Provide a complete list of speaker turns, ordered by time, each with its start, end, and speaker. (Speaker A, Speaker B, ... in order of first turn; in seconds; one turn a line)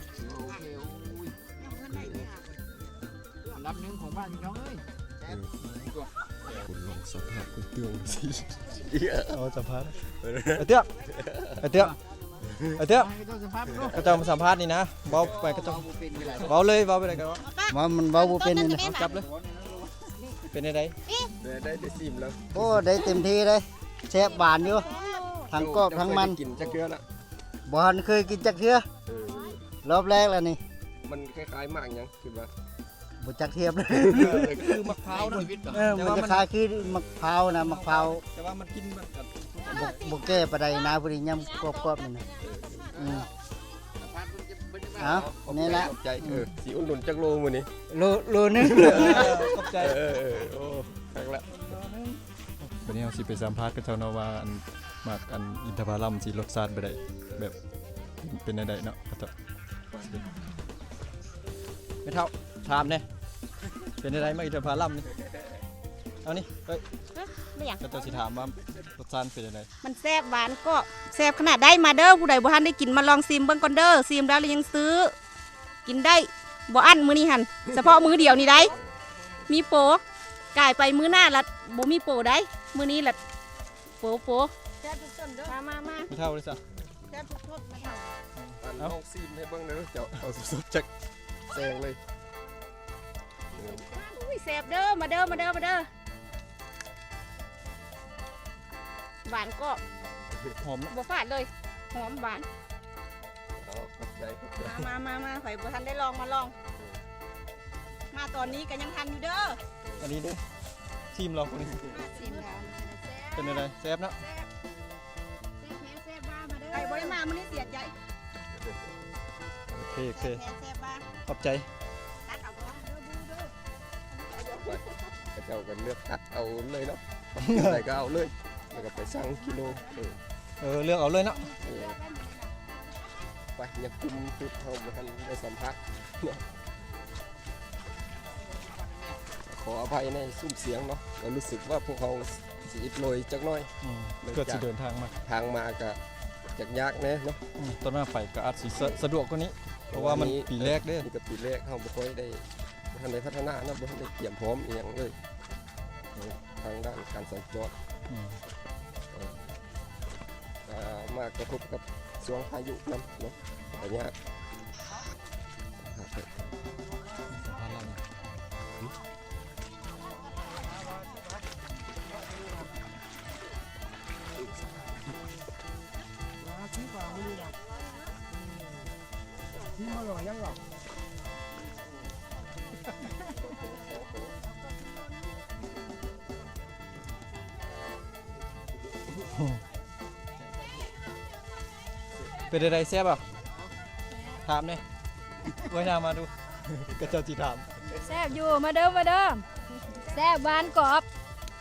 Speaker A: 0.1-1.4
Speaker B: 1.6-2.4
Speaker C: 1.9-2.3
Speaker A: 3.5-4.8
Speaker A: 5.6-6.1
Speaker C: 6.5-9.4
Speaker D: 9.3-10.0
Speaker C: 10.0-11.6
Speaker D: 10.6-10.9
Speaker D: 11.6-12.0
Speaker C: 12.4-12.8
Speaker D: 12.8-13.1
Speaker A: 12.9-14.1
Speaker C: 13.7-14.1
Speaker D: 13.9-17.4
Speaker A: 15.2-16.5
Speaker B: 17.4-19.2
Speaker E: 17.7-18.9
Speaker D: 18.9-19.3
Speaker A: 18.9-20.1
Speaker D: 20.5-21.0
Speaker C: 21.4-22.6
Speaker E: 22.5-24.9
Speaker B: 24.3-25.5
Speaker E: 25.5-26.4
Speaker C: 25.6-27.0
Speaker E: 27.7-28.9
Speaker C: 29.1-29.6
Speaker E: 29.8-30.6
Speaker C: 31.0-32.5
Speaker E: 33.2-34.5
Speaker C: 33.9-35.0
Speaker D: 34.1-36.5
Speaker A: 35.1-35.9
Speaker E: 35.7-38.2
Speaker D: 37.5-40.3
Speaker E: 39.7-42.3
Speaker C: 42.4-43.2
Speaker E: 43.0-43.3
Speaker A: 44.0-45.2
Speaker E: 45.0-46.5
Speaker C: 45.0-47.7
Speaker E: 47.9-49.4
Speaker C: 48.6-51.6
Speaker D: 48.8-50.0
Speaker D: 51.5-57.6
Speaker D: 58.2-59.3
Speaker D: 62.0-63.1
Speaker D: 64.0-65.1
Speaker D: 66.2-66.8
Speaker B: 67.1-67.9
Speaker D: 67.8-69.7
Speaker B: 69.8-75.2
Speaker B: 75.8-78.8
Speaker B: 79.5-80.0
Speaker B: 80.5-83.2
Speaker B: 84.0-86.1
Speaker D: 86.1-86.6
Speaker B: 87.1-88.1
Speaker D: 88.4-89.0
Speaker C: 88.6-90.9
Speaker C: 91.5-92.0
Speaker C: 93.5-93.9
Speaker B: 93.9-95.9
Speaker C: 95.2-95.6
Speaker B: 99.3-99.8
Speaker C: 100.3-100.6
Speaker D: 100.6-100.9
Speaker B: 100.9-102.5
Speaker C: 103.6-105.0
Speaker B: 104.6-106.5
Speaker C: 106.7-107.0
Speaker B: 108.1-109.6
Speaker C: 109.8-110.3
Speaker D: 110.0-110.5
Speaker D: 111.1-112.0
Speaker B: 111.9-113.1
Speaker F: 112.1-113.2
Speaker D: 113.3-114.2
Speaker F: 115.7-117.2
Speaker B: 116.2-117.9
Speaker C: 118.6-118.8
Speaker D: 119.7-120.4
Speaker B: 120.1-121.1
Speaker D: 121.2-121.7
Speaker B: 122.3-123.1
Speaker B: 124.2-124.5
Speaker C: 124.5-124.8
Speaker C: 125.3-130.2
Speaker D: 127.4-127.8
Speaker D: 130.6-131.6
Speaker C: 131.6-132.0
Speaker B: 131.6-132.4
Speaker C: 133.6-136.4
Speaker C: 139.3-143.7
Speaker D: 143.8-145.2
Speaker C: 144.2-144.7
Speaker C: 145.2-146.0
Speaker C: 146.5-147.4
Speaker D: 147.6-151.1
Speaker C: 149.9-155.2
Speaker C: 156.2-157.8
Speaker D: 158.1-158.4
Speaker C: 159.1-159.4
Speaker C: 160.7-164.2
Speaker C: 165.8-166.4
Speaker D: 167.3-168.0
Speaker C: 183.3-184.2
Speaker D: 192.5-193.2
Speaker D: 194.4-194.8
Speaker D: 195.6-197.8
Speaker F: 198.0-201.1